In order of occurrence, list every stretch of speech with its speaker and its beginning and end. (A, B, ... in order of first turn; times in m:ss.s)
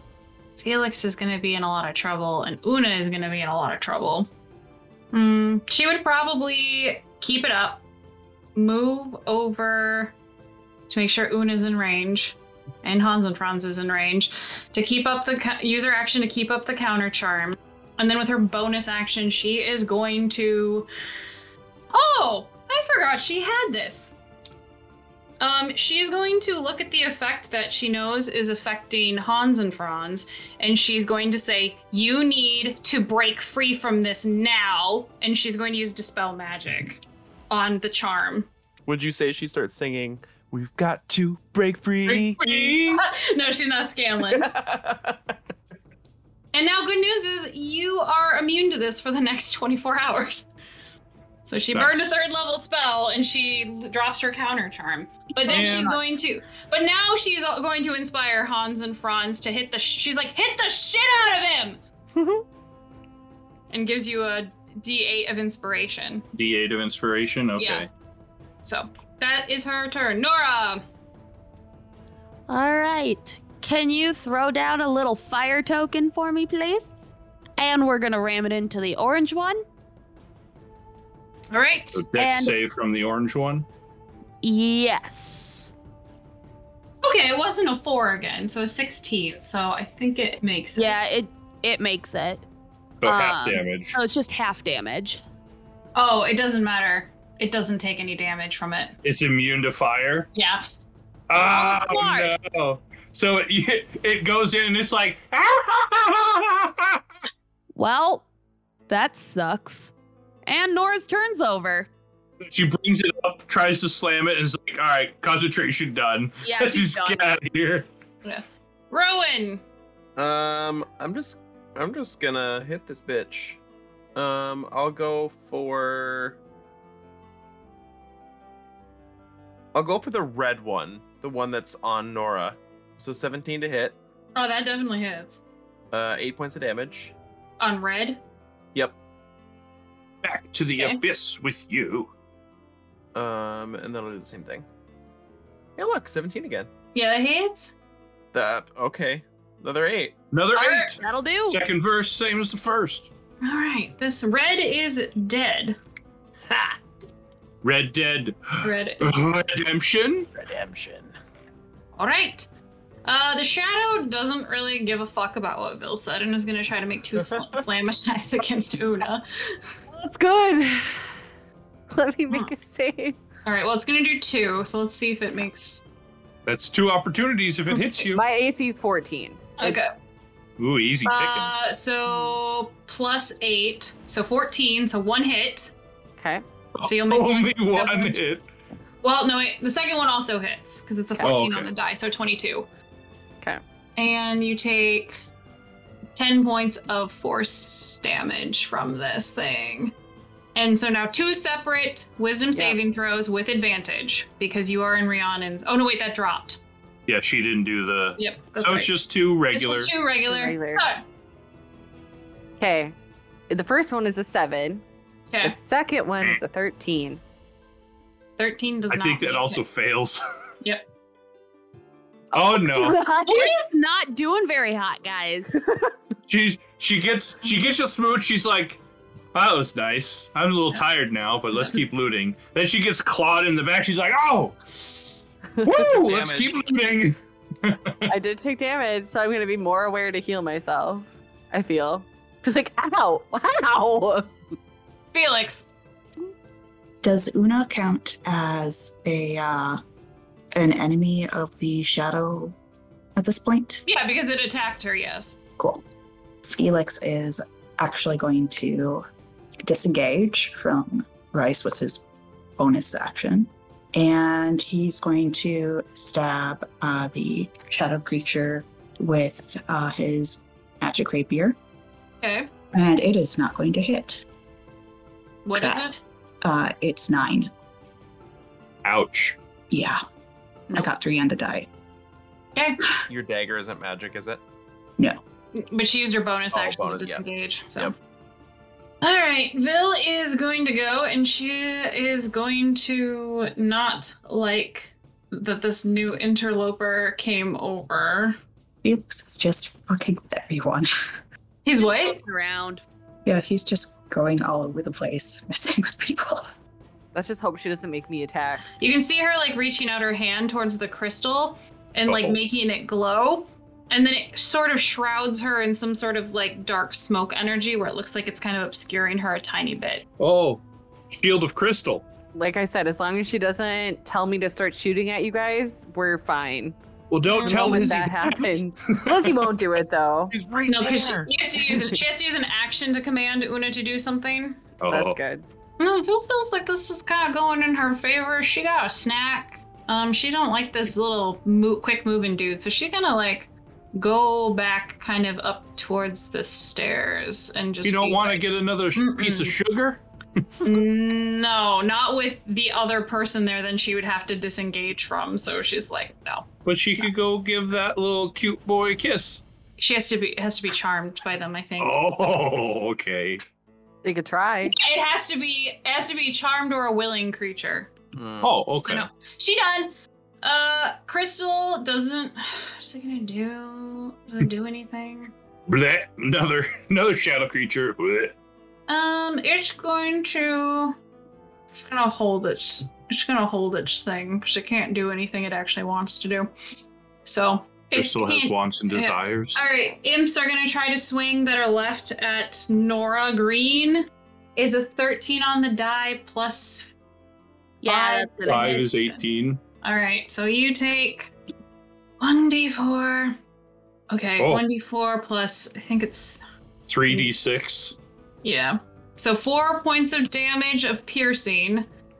0:00.6-0:04.3 A
0:05.1-0:07.8 A
0:08.5-0:10.1 A
0:10.9-0:20.9 A
0:21.9-0:24.1 A
0:25.4-0:38.5 A
0:38.9-0:42.7 B
0:42.1-0:43.0 C
0:42.4-0:44.5 A
0:44.2-0:45.3 B
0:46.5-0:50.5 A
0:51.4-1:01.8 A
0:51.7-0:52.1 C
0:55.5-0:56.0 C
1:02.2-1:02.4 B
1:03.7-1:06.2 A
1:06.4-1:07.9 C
1:07.6-1:07.9 A
1:08.6-1:10.8 A
1:12.5-1:16.8 D
1:17.6-1:19.6 D
1:21.5-1:22.1 A
1:21.9-1:23.6 C
1:22.1-1:22.5 D
1:24.4-1:25.7 D
1:27.0-1:31.0 A
1:30.8-1:32.4 D
1:33.0-1:34.0 C
1:33.0-1:35.2 D
1:35.9-1:39.0 A
1:39.0-1:40.3 C
1:40.3-1:40.7 A
1:41.3-1:47.0 C
1:41.3-1:42.3 D
1:47.8-1:48.2 D
1:48.9-1:49.9 D
1:50.4-1:51.9 D
1:52.4-1:57.8 C
1:56.4-1:57.3 D
1:58.2-1:59.6 A
2:00.2-2:03.6 B
2:04.1-2:06.4 B
2:09.7-2:14.0 B
2:14.3-2:15.4 A
2:15.9-2:17.1 B
2:17.6-2:18.2 A
2:20.2-2:22.1 C
2:23.1-2:24.6 B
2:25.8-2:26.7 B
2:26.9-2:27.7 A
2:28.3-2:30.2 B
2:30.3-2:33.1 C
2:30.5-2:31.0 A
2:31.0-2:31.6 D
2:33.4-2:35.8 A
2:37.6-2:40.3 C
2:38.6-2:39.2 A
2:40.3-2:41.1 B
2:42.0-2:42.5 A
2:43.0-2:49.6 A
2:49.9-2:51.1 E
2:51.9-2:53.2 E
2:53.4-2:55.8 A
2:56.4-2:58.2 C
2:57.7-2:59.8 E
2:59.6-2:59.9 A
3:00.6-3:01.6 C
3:01.0-3:05.7 A
3:06.2-3:06.4 E
3:06.8-3:08.4 C
3:06.8-3:08.2 A
3:09.0-3:12.7 A
3:11.2-3:11.7 C
3:14.0-3:15.2 A
3:16.1-3:19.9 A
3:20.5-3:26.6 A
3:27.1-3:29.9 C
3:28.2-3:28.9 A
3:29.5-3:31.0 A
3:30.3-3:30.8 E
3:32.6-3:32.9 E
3:33.5-3:34.8 E
3:35.3-3:35.6 A
3:35.4-3:37.2 E
3:38.4-3:39.6 A
3:38.9-3:40.2 C
3:42.3-3:43.0 C
3:42.3-3:43.6 E
3:43.3-3:45.6 D
3:45.6-3:45.9 E
3:46.3-3:48.8 C
3:49.3-3:58.1 C
3:55.6-3:55.8 E
3:56.0-3:56.6 B
3:58.1-4:04.3 E
4:05.1-4:05.7 A
4:07.0-4:09.8 F
4:10.6-4:12.6 F
4:13.2-4:13.8 F
4:13.8-4:15.4 A
4:15.6-4:15.8 F
4:16.4-4:19.0 F
4:19.6-4:22.0 F
4:22.6-4:31.6 F
4:32.2-4:32.5 A
4:32.7-4:34.2 F
4:35.4-4:36.0 A
4:35.5-4:37.5 F
4:38.8-4:39.4 C
4:39.7-4:40.0 F
4:40.7-4:41.7 F
4:43.1-4:44.4 B
4:45.5-4:47.9 A
4:46.5-4:47.2 B
4:49.0-4:58.4 A
4:58.8-5:00.9 F
5:01.6-5:02.2 A
5:01.8-5:02.8 D
5:03.2-5:06.5 F
5:07.1-5:08.6 E
5:08.8-5:20.0 A
5:12.0-5:12.4 C
5:20.2-5:22.1 C
5:22.3-5:26.8 E
5:27.1-5:29.4 C
5:27.3-5:27.8 A
5:27.4-5:30.3 E
5:30.3-5:31.3 B
5:30.7-5:34.6 A
5:34.8-5:35.2 C
5:34.9-5:35.4 E
5:35.8-5:48.4 A
5:47.8-5:50.0 C
5:48.9-5:49.6 A
5:50.6-5:56.5 A
5:56.6-5:59.4 C
5:59.8-6:02.0 A
6:01.8-6:03.4 C
6:04.0-6:04.7 E
6:04.6-6:07.9 A
6:08.1-6:08.6 B
6:08.4-6:09.1 C
6:08.8-6:15.3 A
6:15.7-6:18.3 C
6:18.9-6:21.0 A
6:21.7-6:26.5 A
6:27.2-6:36.8 A
6:27.9-6:29.6 C
6:37.8-6:39.0 D
6:37.8-6:39.2 A
6:38.4-6:39.6 C
6:39.8-6:41.3 A
6:42.2-6:43.4 A
6:44.1-6:46.4 A
6:44.4-6:44.6 C
6:46.9-6:48.0 C
6:48.4-6:51.9 A